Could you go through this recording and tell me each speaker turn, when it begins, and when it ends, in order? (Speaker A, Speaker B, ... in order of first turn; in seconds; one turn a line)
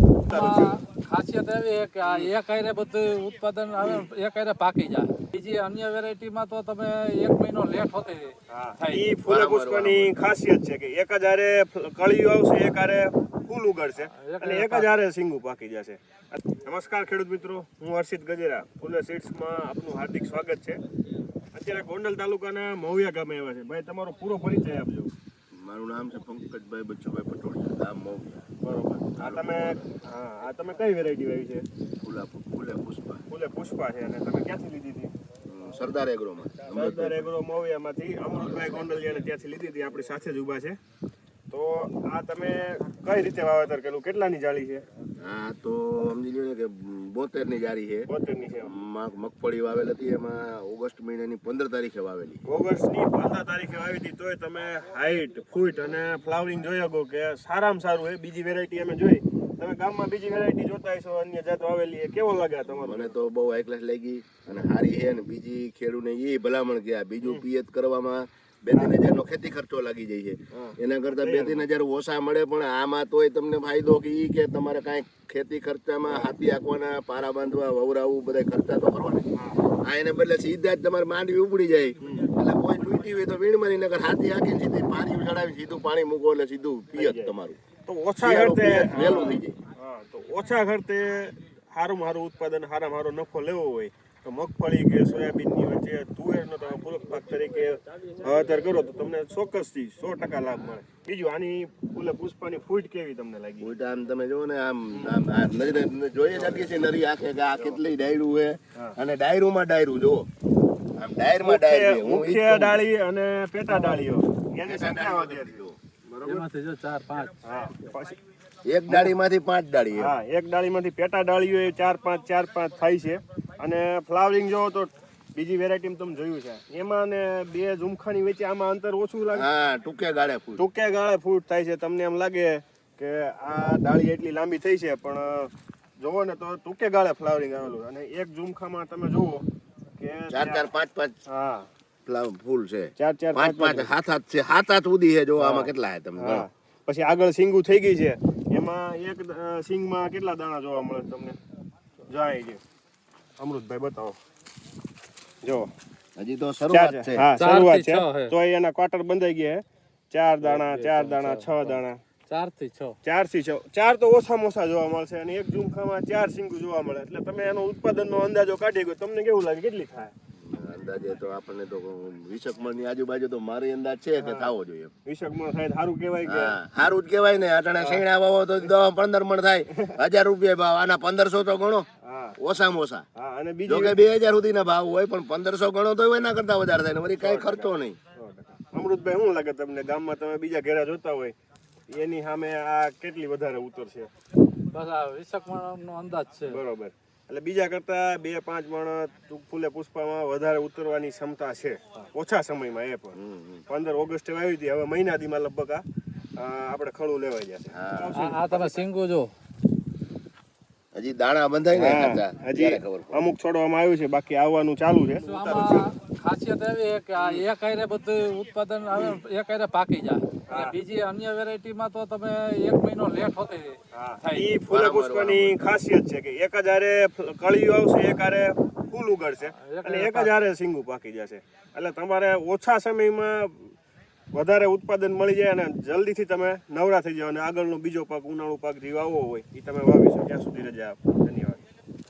Speaker A: 0.3-0.8
Speaker B: 0.3-9.1
Speaker A: 2.0-2.3
Speaker A: 8.5-20.8
Speaker C: 9.2-10.1
Speaker B: 14.1-14.9
Speaker A: 21.5-25.1
Speaker C: 25.5-28.4
Speaker A: 28.6-31.7
Speaker C: 29.2-30.0
Speaker C: 32.0-33.2
Speaker A: 33.3-35.1
Speaker C: 35.5-37.2
Speaker A: 36.7-40.8
Speaker A: 41.5-44.8
Speaker C: 45.2-48.1
Speaker A: 48.1-48.7
Speaker C: 48.6-52.4
Speaker A: 52.5-63.1
Speaker C: 62.7-79.2
Speaker A: 70.5-71.7
Speaker A: 76.1-76.3
Speaker A: 79.3-79.6
Speaker C: 79.8-87.6
Speaker A: 82.0-82.3
Speaker A: 86.9-87.3
Speaker A: 87.8-103.7
Speaker C: 88.2-89.6
Speaker C: 103.6-110.3
Speaker A: 104.9-105.2
Speaker A: 106.3-106.7
Speaker C: 111.0-112.8
Speaker A: 111.4-116.5
Speaker C: 114.6-115.8
Speaker B: 116.2-117.9
Speaker A: 117.4-118.2
Speaker C: 118.6-120.1
Speaker A: 118.9-119.2
Speaker A: 119.9-129.5
Speaker C: 129.3-130.6
Speaker A: 130.6-139.5
Speaker A: 140.0-140.7
Speaker C: 140.3-141.2
Speaker A: 141.2-141.7
Speaker C: 142.1-146.4
Speaker A: 143.0-143.9
Speaker A: 145.3-151.4
Speaker A: 152.1-152.6
Speaker A: 153.4-154.2
Speaker A: 155.4-155.7
Speaker C: 156.2-157.2
Speaker A: 156.7-162.0
Speaker B: 157.3-158.3
Speaker B: 160.4-162.9
Speaker A: 163.0-170.1
Speaker C: 170.4-174.9
Speaker A: 174.2-174.5
Speaker A: 175.1-176.6
Speaker C: 176.2-181.9
Speaker A: 177.8-178.0
Speaker A: 179.7-179.9
Speaker A: 182.0-182.4
Speaker C: 182.4-183.0
Speaker A: 183.2-184.0
Speaker C: 183.7-188.0
Speaker A: 187.2-191.3
Speaker A: 191.9-194.1
Speaker B: 194.7-196.6
Speaker A: 196.4-203.2
Speaker C: 203.1-203.6
Speaker A: 203.7-205.8
Speaker A: 206.4-208.8
Speaker C: 207.7-208.2
Speaker B: 208.1-209.3
Speaker C: 210.9-213.2
Speaker A: 211.7-215.9
Speaker B: 215.2-224.5
Speaker A: 217.2-217.4
Speaker A: 218.9-219.2
Speaker A: 220.5-220.8
Speaker A: 223.9-233.7
Speaker C: 224.7-225.6
Speaker B: 229.6-230.3
Speaker A: 234.3-241.6